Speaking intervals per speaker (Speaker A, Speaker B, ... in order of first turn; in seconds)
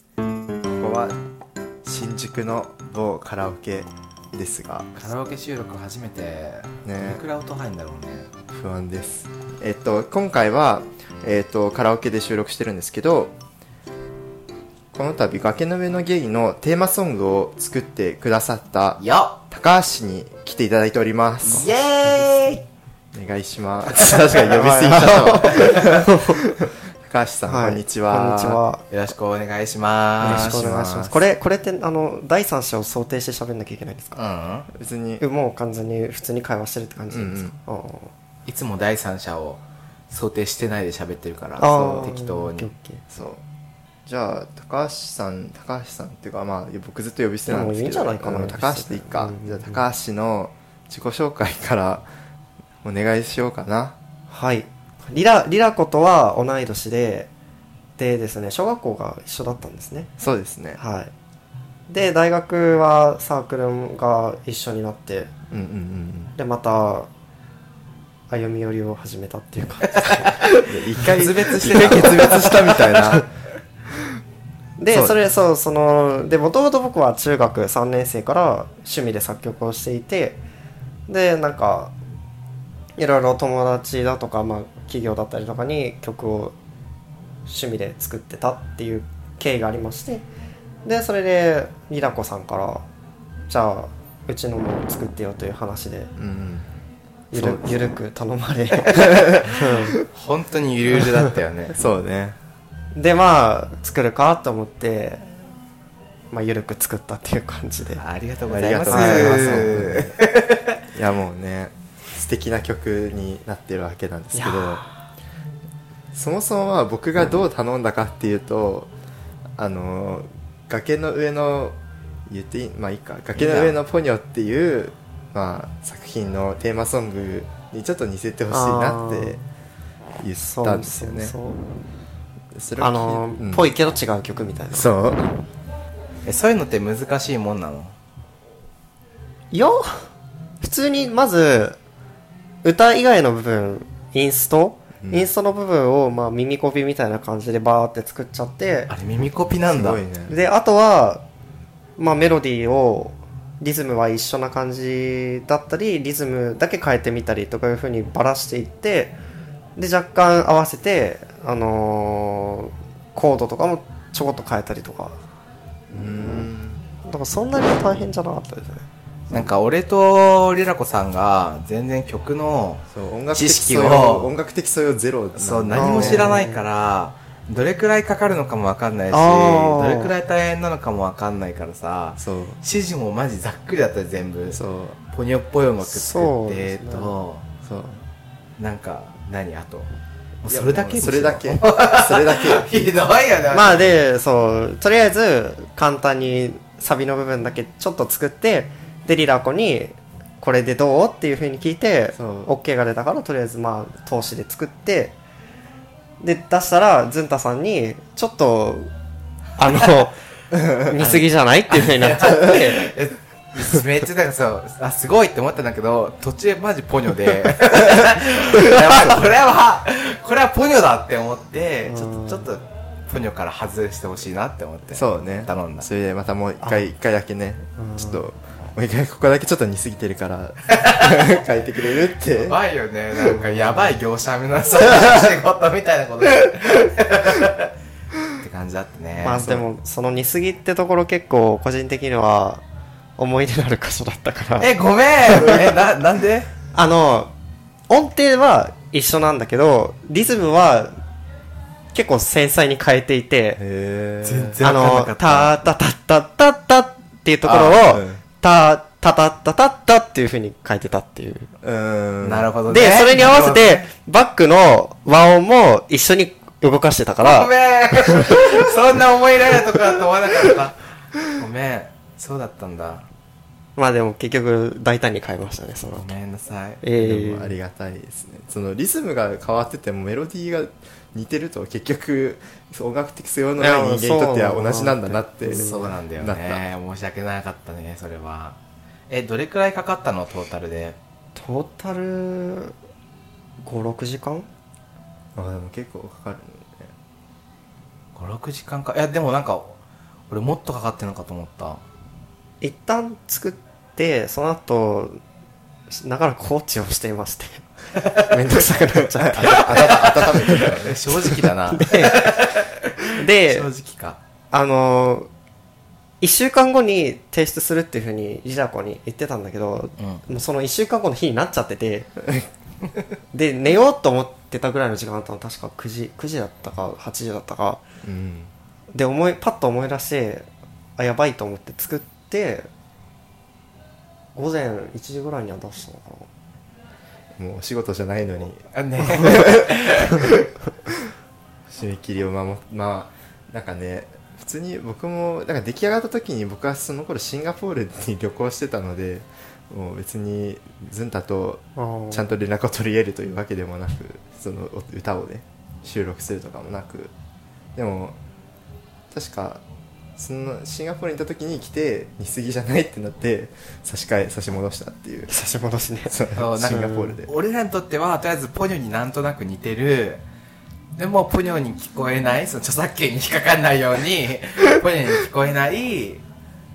Speaker A: 0.7-1.2, 1.8-4.9, 6.8-7.2, 8.5-13.3, 14.9-21.7, 23.1-26.3, 27.0-28.6, 30.2-31.3, 34.7-35.2, 37.1-37.5, 41.6-42.1, 43.1-43.4, 44.0-52.1, 52.8-54.0, 60.2-60.8, 65.5-66.3, 70.6-73.2, 74.9-75.2, 96.2-96.7, 97.3-97.9, 99.0-99.5, 101.7-102.3, 108.5-110.1, 110.9-114.9, 116.1-118.9, 119.6-129.4, 130.2-131.4, 132.5-133.7, 134.7-135.3, 145.0-145.3, 149.7-150.3, 165.9-166.8, 172.9-176.4, 182.2-182.6, 184.5-185.0, 187.6-188.0, 190.4-192.7, 202.1-202.5, 224.9-232.6, 253.6-254.6, 257.8-258.2, 261.6-262.5, 277.0-286.6, 295.3-296.9, 309.1-311.0, 328.0-328.5, 337.4-340.2, 341.7-357.1, 357.7-358.2, 359.1-359.6, 360.2-365.3, 366.1-367.3
Speaker B: 5.0-8.3, 19.0-19.4, 21.4-22.6, 23.9-24.4, 28.9-30.6, 34.1-34.7, 38.5-42.7, 70.4-72.8, 100.1-101.7, 108.0-110.8, 123.3-123.8, 136.2-137.9, 148.9-150.0, 169.3-174.3, 175.3-184.6, 185.1-187.4, 188.6-189.9, 190.4-194.0, 211.0-225.9, 232.2-237.7, 238.3-239.7, 244.6-246.5, 254.2-255.6, 257.4-258.0, 262.2-263.9, 267.2-273.1, 275.9-276.8, 285.4-288.6, 289.1-291.0, 298.1-301.8, 309.4-314.2, 320.0-320.2, 338.6-340.3, 366.3-370.2, 370.9-376.2
Speaker C: 24.5-26.4, 27.5-28.8, 30.2-34.2, 35.2-38.1, 41.6-43.0, 47.5-49.8, 54.3-57.3, 58.0-60.1, 60.8-61.1, 61.9-65.3, 66.3-67.1, 68.3-70.4, 71.9-72.4, 74.8-80.4, 81.1-81.9, 83.0-86.5, 87.4-90.2, 90.8-92.8, 93.5-96.1, 97.3-100.0, 102.9-105.2, 106.3-108.0, 108.9-109.7, 114.3-114.9, 128.5-129.4, 130.4-131.6, 132.8-134.9, 139.5-140.1, 140.6-141.8, 142.6-148.9, 150.3-151.2, 152.0-159.2, 159.8-165.2, 167.0-168.8, 175.7-176.6, 179.1-180.1, 185.8-187.1, 193.5-205.1, 206.2-208.9, 209.6-210.2, 210.8-212.8, 221.9-222.5, 226.6-226.9, 227.8-228.2, 239.2-242.6, 243.2-244.7, 245.2-245.7, 246.7-247.3, 247.9-251.0, 251.9-253.6, 254.6-261.5, 262.7-267.5, 268.1-268.4, 273.8-276.1, 276.8-277.6, 283.6-285.9, 291.3-292.7, 293.6-294.5, 302.6-305.2, 305.9-307.6, 308.2-310.7, 311.3-312.4, 313.1-313.7, 314.5-315.3, 316.2-322.1, 323.3-327.8, 328.9-332.7, 334.3-336.3, 351.8-352.3, 365.3-367.1